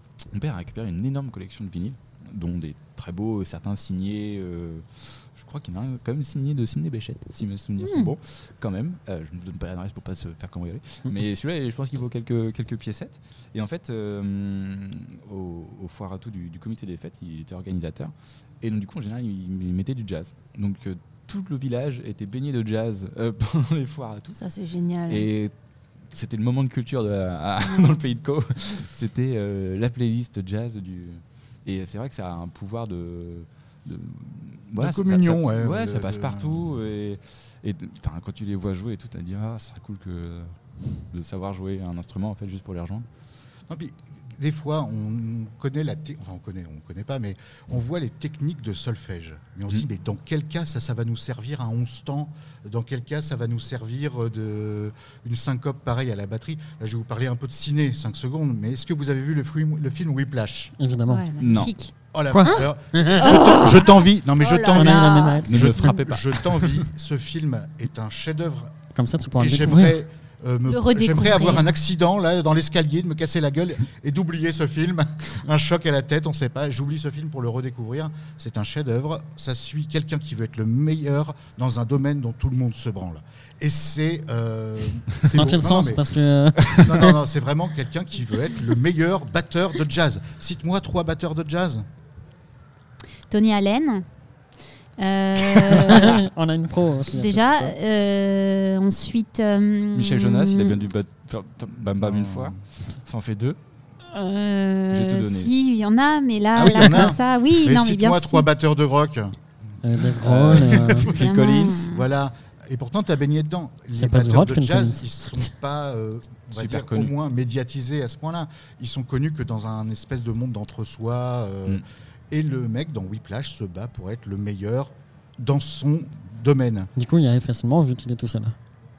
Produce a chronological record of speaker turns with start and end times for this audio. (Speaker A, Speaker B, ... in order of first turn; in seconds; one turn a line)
Speaker A: 0.3-24.4
Speaker B: 7.8-8.1
Speaker B: 24.4-25.3
Speaker A: 25.1-25.5
Speaker A: 26.1-40.5
Speaker C: 34.8-36.6
Speaker A: 41.1-43.1
Speaker C: 43.7-60.8
Speaker D: 60.8-61.3
Speaker B: 61.1-62.0
Speaker A: 61.4-61.7
Speaker C: 62.1-68.7
Speaker D: 62.3-63.4
Speaker B: 63.2-65.7
Speaker D: 64.7-66.0
Speaker A: 65.5-66.9
Speaker D: 69.0-70.0
Speaker C: 69.4-86.1
Speaker B: 70.7-71.7
Speaker D: 85.2-87.2
Speaker C: 86.6-91.8
Speaker B: 93.3-94.0
Speaker B: 95.0-96.2
Speaker D: 95.8-97.8
Speaker B: 97.1-100.8
Speaker A: 100.0-103.6
Speaker C: 102.0-102.6
Speaker B: 104.1-108.5
Speaker A: 104.9-105.5
Speaker C: 106.5-109.3
Speaker D: 106.8-107.1
Speaker D: 109.8-111.1
Speaker A: 110.2-111.9
Speaker C: 110.4-126.9
Speaker B: 111.1-112.1
Speaker D: 113.9-115.1
Speaker A: 116.5-117.1
Speaker D: 127.0-128.6